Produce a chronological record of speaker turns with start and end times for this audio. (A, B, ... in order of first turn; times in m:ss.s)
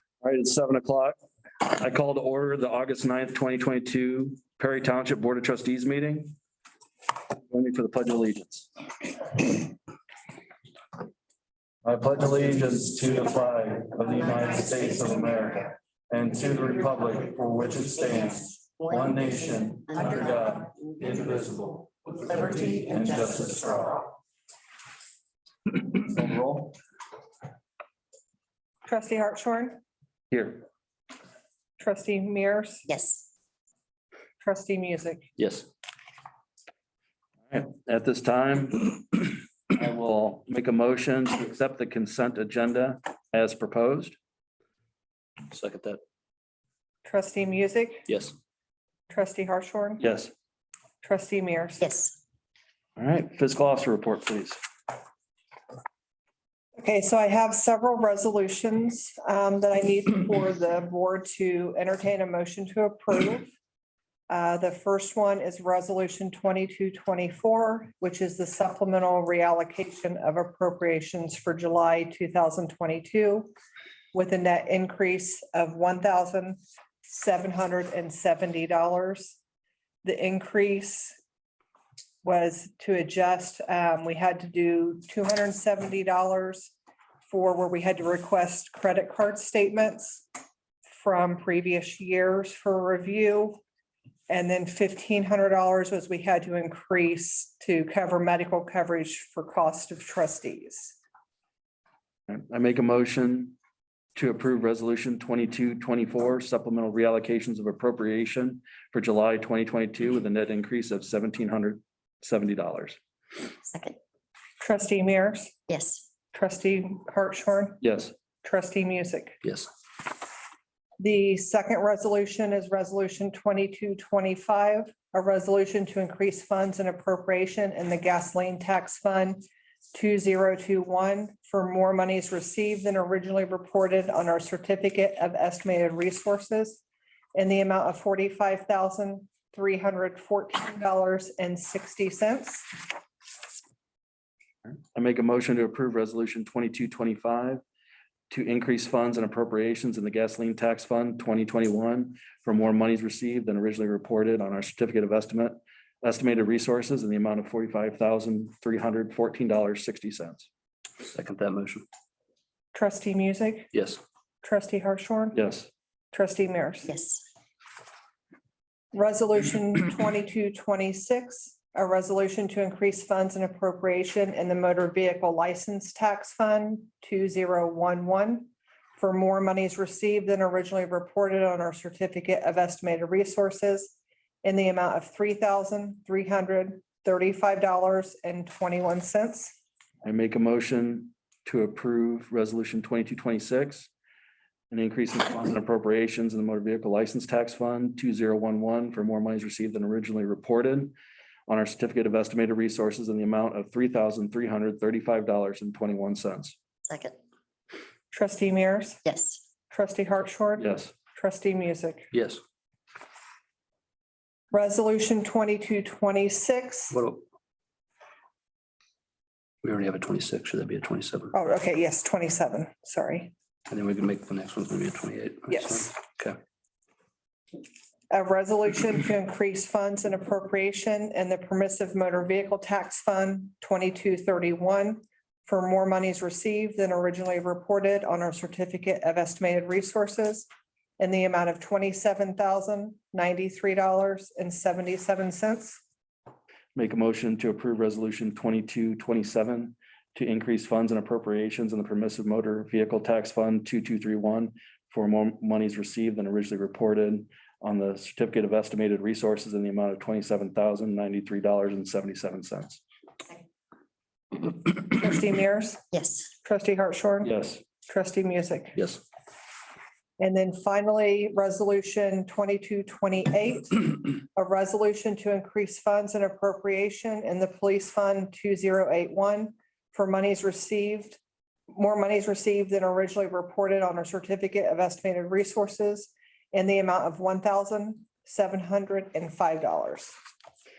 0:00.2-0:06.3 A
0:07.5-0:08.7 A
0:09.3-0:09.6 A
0:11.8-0:24.1 A
0:25.9-0:26.8 A
0:28.8-0:29.8 B
0:30.3-0:30.7 A
0:31.8-0:32.9 B
0:32.9-0:33.3 C
0:34.4-0:35.3 B
0:35.4-0:35.7 D
0:37.5-0:44.2 A
0:45.5-0:46.0 D
0:47.0-0:48.1 B
0:48.1-0:48.3 D
0:49.1-0:50.0 B
0:50.0-0:50.3 A
0:51.0-0:51.9 B
0:51.8-0:52.2 C
0:53.0-0:54.6 A
0:56.8-1:03.5 B
1:04.3-1:13.5 B
1:14.1-1:19.4 B
1:20.0-1:21.2 B
1:22.2-1:26.7 B
1:27.3-1:30.2 B
1:30.9-1:33.6 B
1:34.3-1:41.0 B
1:42.3-1:43.6 A
1:44.2-1:53.0 A
1:53.7-1:54.0 C
1:54.6-1:55.6 B
1:55.7-1:56.0 C
1:56.3-1:57.8 B
1:57.8-1:58.1 A
1:58.4-1:59.4 B
2:01.0-2:09.4 B
2:09.9-2:16.8 B
2:17.4-2:22.8 B
2:25.0-2:27.6 A
2:28.3-2:40.5 A
2:41.0-2:41.8 D
2:42.7-2:43.7 B
2:43.7-2:44.0 D
2:44.4-2:45.4 B
2:45.3-2:45.7 A
2:46.1-2:46.9 B
2:46.9-2:47.2 C
2:48.9-3:09.6 B
3:10.0-3:13.9 A
3:14.7-3:20.9 A
3:21.5-3:26.6 A
3:26.9-3:27.2 C
3:28.1-3:29.0 B
3:29.0-3:29.4 C
3:29.7-3:32.1 B
3:30.6-3:30.9 A
3:32.1-3:32.4 D
3:34.5-3:37.0 B
3:36.9-3:37.2 D
3:39.6-3:41.3 D
3:41.3-3:43.3 B
3:43.7-3:46.4 D
3:45.5-3:45.9 B
3:48.1-4:00.5 B
4:01.0-4:05.8 B
4:06.8-4:22.8 A
4:24.9-4:25.9 B
4:25.9-4:26.3 C
4:26.4-4:27.3 B
4:27.2-4:27.6 A
4:27.8-4:28.8 B
4:30.2-4:41.2 B
4:41.7-4:50.2 B